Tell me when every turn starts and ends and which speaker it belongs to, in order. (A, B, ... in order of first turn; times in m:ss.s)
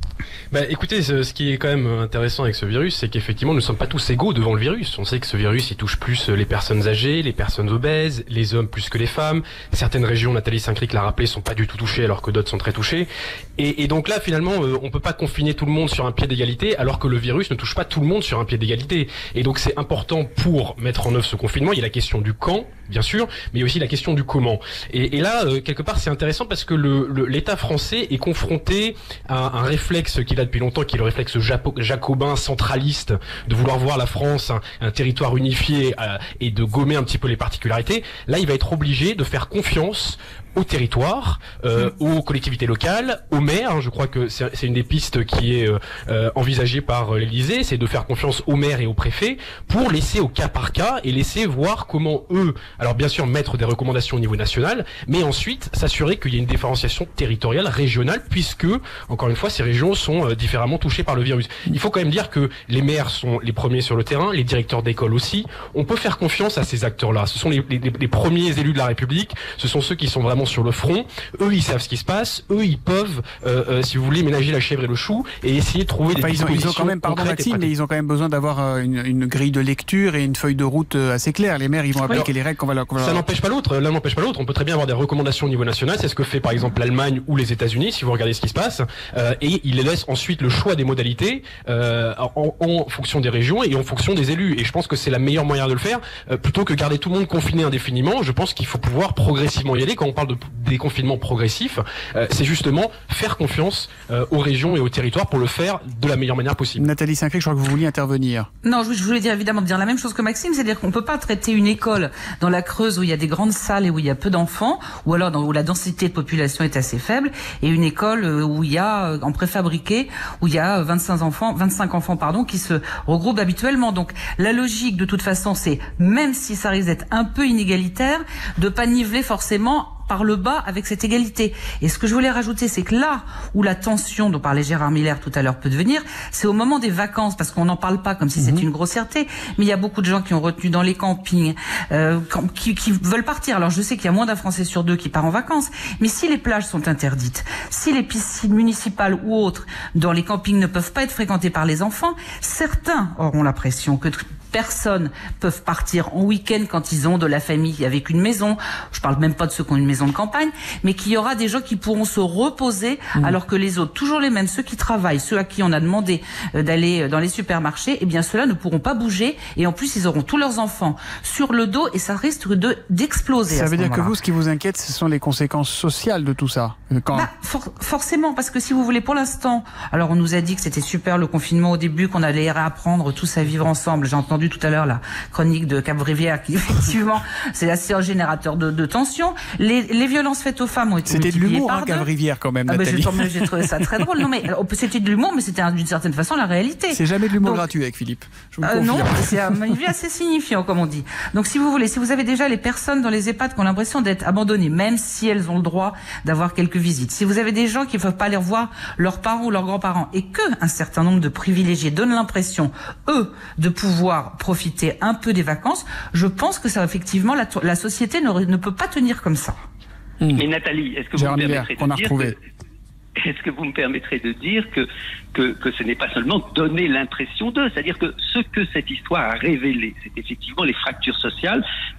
0:00.5-1:17.7 A
1:16.1-1:23.2 B
1:23.0-1:46.8 A
1:46.8-1:48.5 B
1:48.6-2:54.1 C
2:18.4-2:18.6 B
2:53.5-2:57.3 B
2:57.1-3:12.1 C
3:11.1-3:14.3 B
3:12.7-3:17.7 C
3:16.9-3:19.8 B
3:18.6-3:39.6 C
3:40.4-3:42.3 D
3:41.1-3:42.4 B
3:43.2-3:51.6 D